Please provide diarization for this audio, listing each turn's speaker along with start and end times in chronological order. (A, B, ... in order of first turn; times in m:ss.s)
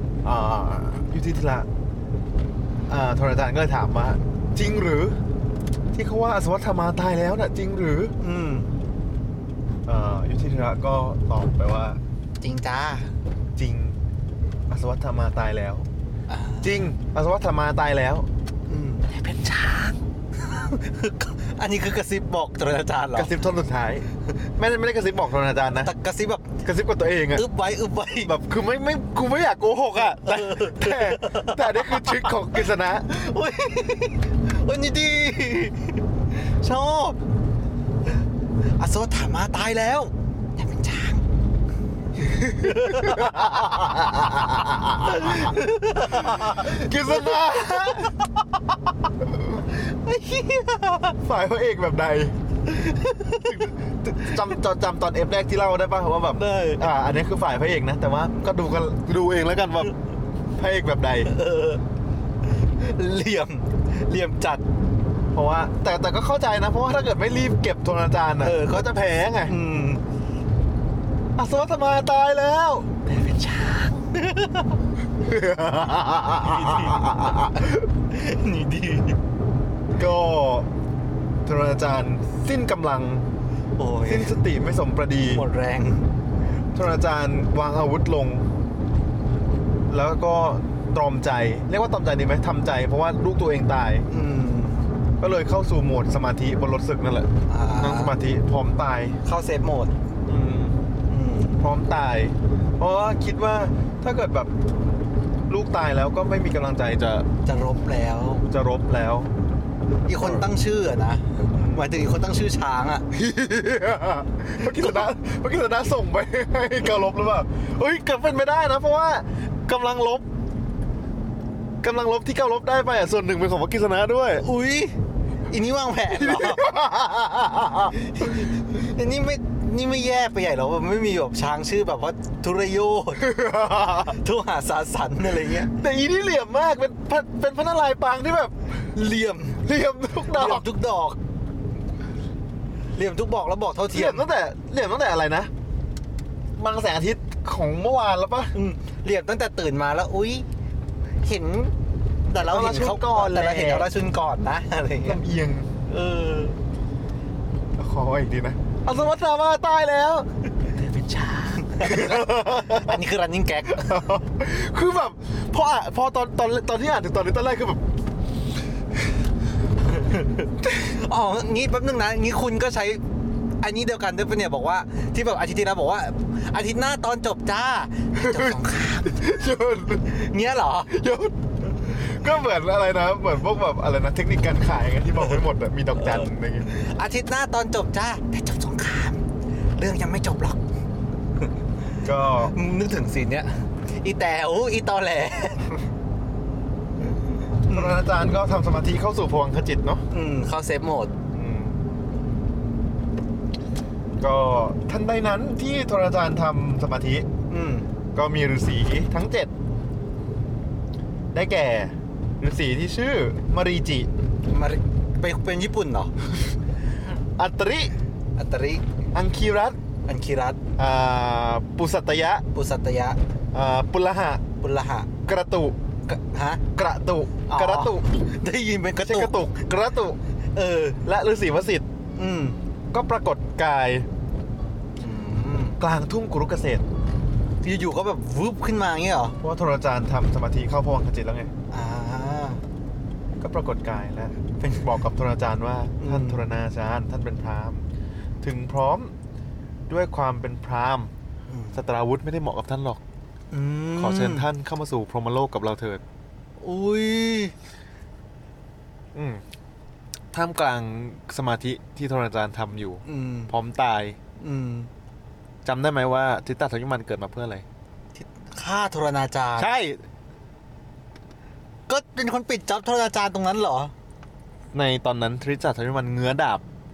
0:00.2-0:01.7 A
0:02.9-0:05.2 A
0:05.9-0:08.1 A
0:08.2-0:08.7 B
0:09.8-0:12.0 A
0:12.4-0:13.1 B
0:13.5-0:14.0 A
0:14.7-0:15.9 A
0:16.3-0:16.9 B
0:16.6-0:18.3 A
0:18.7-0:19.0 B
0:19.1-0:20.0 A
0:20.4-0:23.3 B
0:23.1-0:25.9 A
0:25.7-0:26.6 B
0:26.6-0:27.4 A
0:27.3-0:28.3 B
0:28.2-0:33.1 A
0:30.0-0:32.4 B
0:33.0-0:37.2 B
0:38.8-0:41.2 B
0:42.2-0:48.2 A
0:42.4-0:48.3 B
0:49.5-0:51.2 B
0:51.2-0:52.3 A
0:52.6-0:54.5 B
0:53.4-0:59.9 A
0:56.3-0:56.9 B
1:00.6-1:01.3 A
1:01.2-1:01.8 B
1:02.5-1:04.6 B
1:05.3-1:09.5 A
1:08.4-1:08.9 B
1:09.4-1:10.0 B
1:11.4-1:12.9 A
1:13.0-1:14.8 B
1:15.2-1:17.8 A
1:16.3-1:19.2 B
1:19.9-1:20.7 A
1:21.4-1:23.2 A
1:23.8-1:24.4 B
1:24.1-1:25.5 A
1:25.3-1:26.1 B
1:26.7-1:28.5 A
1:29.9-1:34.0 A
1:34.1-1:34.8 B
1:35.2-1:39.2 A
1:37.5-1:38.2 B
1:39.2-1:39.9 B
1:40.2-1:40.8 A
1:41.1-1:41.6 B
1:41.6-1:44.5 A
1:45.5-1:47.3 A
1:47.4-1:48.5 B
1:48.5-1:49.3 A
1:50.0-1:53.0 B
1:50.2-1:50.5 A
1:51.5-1:51.9 A
1:53.1-2:00.2 A
1:54.7-1:55.0 B
2:01.8-2:04.4 A
2:04.4-2:06.7 B
2:06.1-2:08.5 A
2:07.9-2:13.4 B
2:13.2-2:14.2 A
2:14.0-2:15.7 B
2:15.6-2:18.9 A
2:18.9-2:19.6 B
2:19.6-2:20.6 A
2:20.3-2:21.2 B
2:22.9-2:24.2 B
2:23.9-2:25.5 A
2:26.6-2:28.5 A
2:28.5-2:30.4 B
2:31.2-2:31.7 B
2:32.3-2:35.2 B
2:32.4-2:33.9 A
2:35.0-2:35.7 A
2:35.8-2:36.6 B
2:37.8-2:43.0 A
2:41.4-2:44.1 B
2:43.7-2:47.8 A
2:49.9-2:53.0 B
2:53.6-2:59.3 B
2:58.1-3:00.2 A
3:00.0-3:01.0 B
3:00.9-3:06.7 A
3:06.0-3:09.2 B
3:09.8-3:10.6 B
3:12.0-3:12.5 A
3:12.4-3:15.8 B
3:17.0-3:18.0 B
3:17.7-3:20.0 A
3:20.1-3:21.1 B
3:21.3-3:21.8 A
3:24.2-3:27.3 A
3:27.5-3:27.9 B
3:28.1-3:29.5 A
3:31.3-3:34.1 A
3:34.5-3:36.1 B
3:37.4-3:37.9 A
3:38.4-3:38.8 B
3:39.1-3:39.8 A
3:40.0-3:40.6 B
3:40.8-3:42.4 A
3:42.5-3:43.2 B
3:43.5-3:44.4 A
3:44.6-3:45.1 B
3:45.2-3:45.8 A
3:46.1-3:46.6 B
3:46.7-3:48.1 A
3:47.5-3:49.4 B
3:49.0-3:50.2 A
3:50.5-3:51.0 B
3:51.0-3:51.8 A
3:52.2-3:52.6 B
3:52.9-3:54.1 A
3:55.0-3:55.8 B
3:55.8-3:56.8 A
3:57.6-3:59.4 B
3:59.4-4:01.5 A
4:01.7-4:02.6 B
4:03.4-4:07.9 A
4:04.6-4:04.9 B
4:06.0-4:06.4 B
4:08.4-4:09.1 A
4:09.9-4:11.1 A
4:11.5-4:11.8 B
4:11.7-4:13.0 A
4:13.5-4:14.5 B
4:13.9-4:16.0 A
4:16.6-4:17.5 B
4:19.1-4:19.4 A
4:20.3-4:24.2 A
4:23.0-4:23.5 B
4:24.4-4:24.9 B
4:25.6-4:27.6 A
4:28.1-4:29.8 B
4:29.6-4:30.0 A
4:31.9-4:33.9 B
4:34.7-4:36.6 A